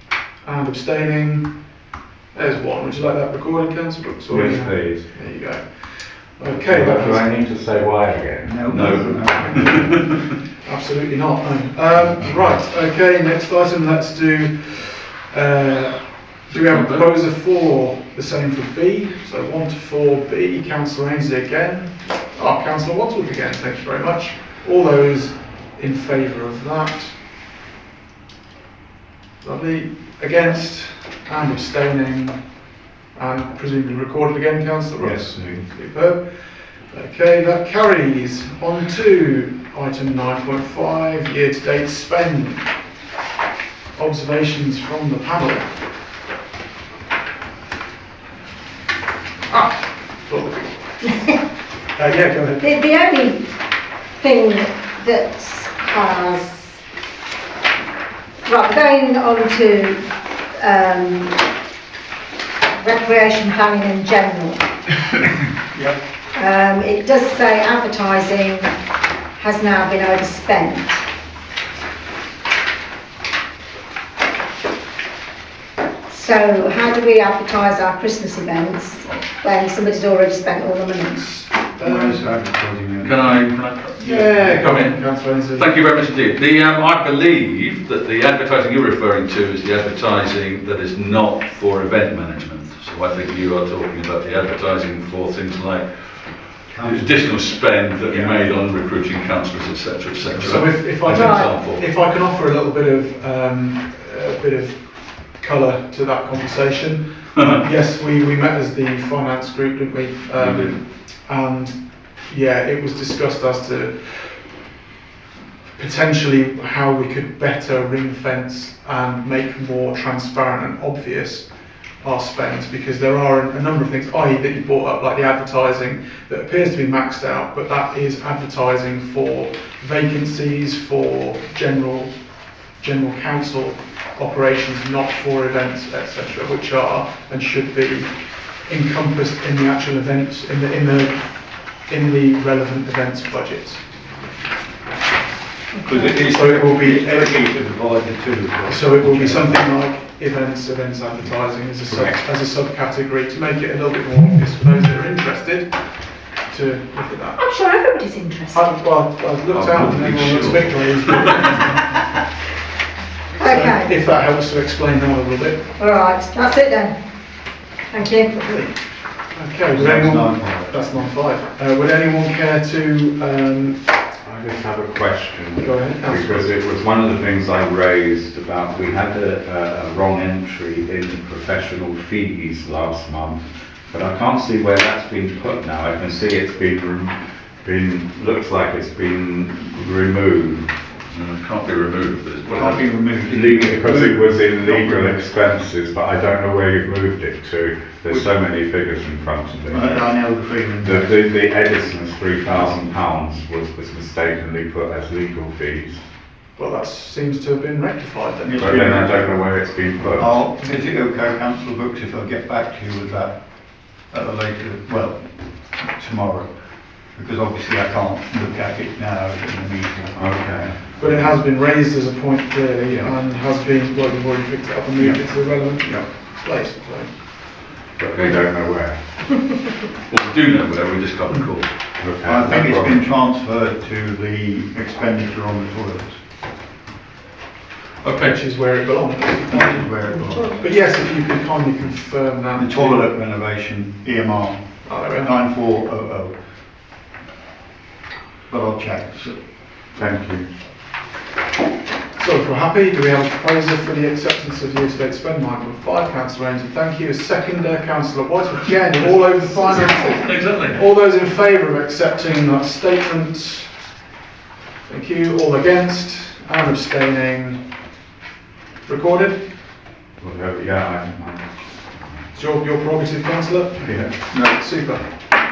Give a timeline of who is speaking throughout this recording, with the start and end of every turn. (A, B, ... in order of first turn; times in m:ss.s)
0:00.4-0:01.8 A
0:02.3-0:07.3 A
0:04.3-0:05.1 B
0:06.4-0:08.7 B
0:08.4-0:10.0 C
0:08.7-0:10.0 D
0:10.6-0:27.1 A
0:12.1-0:12.6 B
0:16.5-0:17.1 D
0:29.4-0:42.7 A
0:35.0-0:35.7 B
0:43.9-0:45.7 A
0:49.5-0:51.0 A
0:52.0-0:52.6 A
0:52.6-0:53.5 E
0:54.2-0:56.8 E
0:58.4-1:00.0 E
1:00.6-1:01.4 E
1:02.7-1:04.7 E
1:06.3-1:08.7 E
1:09.4-1:11.0 E
1:16.1-1:21.4 E
1:21.4-1:22.2 A
1:21.8-1:23.4 C
1:23.0-1:41.8 D
1:24.0-1:25.8 A
1:24.0-1:24.5 C
1:36.7-1:37.4 C
1:38.1-1:38.4 C
1:40.4-1:54.5 A
1:41.1-1:41.5 E
1:50.3-1:50.8 D
1:55.7-2:12.2 A
2:12.8-2:18.1 A
2:18.6-2:23.8 A
2:25.7-2:26.1 E
2:25.8-2:29.6 C
2:26.0-2:27.4 A
2:28.7-2:35.8 A
2:36.4-2:37.5 A
2:37.4-2:38.8 E
2:38.5-2:41.9 A
2:39.5-2:41.6 D
2:43.4-2:43.9 E
2:43.4-2:45.7 A
2:45.8-2:46.9 E
2:47.9-2:48.7 E
2:49.3-2:53.8 A
2:49.7-2:50.7 C
2:54.2-3:10.7 B
2:55.6-2:56.4 A
3:11.1-3:12.8 D
3:12.5-3:15.2 C
3:13.2-3:20.1 B
3:19.7-3:21.2 C
3:20.8-3:26.0 B
3:26.6-3:29.0 A
3:28.5-3:29.5 C
3:28.6-3:30.3 B
3:30.2-3:40.3 C
3:40.1-3:41.4 B
3:41.0-3:47.1 A
3:45.0-3:46.0 C
3:48.0-3:49.0 B
3:50.1-3:51.7 D
3:52.0-3:53.0 B
3:52.2-3:56.2 C
3:58.0-3:58.3 D
3:58.1-4:03.1 A
3:59.5-4:00.6 C
4:00.1-4:00.6 E
4:02.6-4:06.5 C
4:04.8-4:05.3 A
4:08.5-4:09.4 C
4:09.9-4:10.4 B
4:12.2-4:23.7 A
4:19.2-4:20.8 D
4:24.8-4:27.6 A
4:28.8-4:29.4 A
4:30.2-4:31.6 B
4:32.3-4:35.1 A
4:33.8-4:34.1 B
4:34.3-4:34.6 C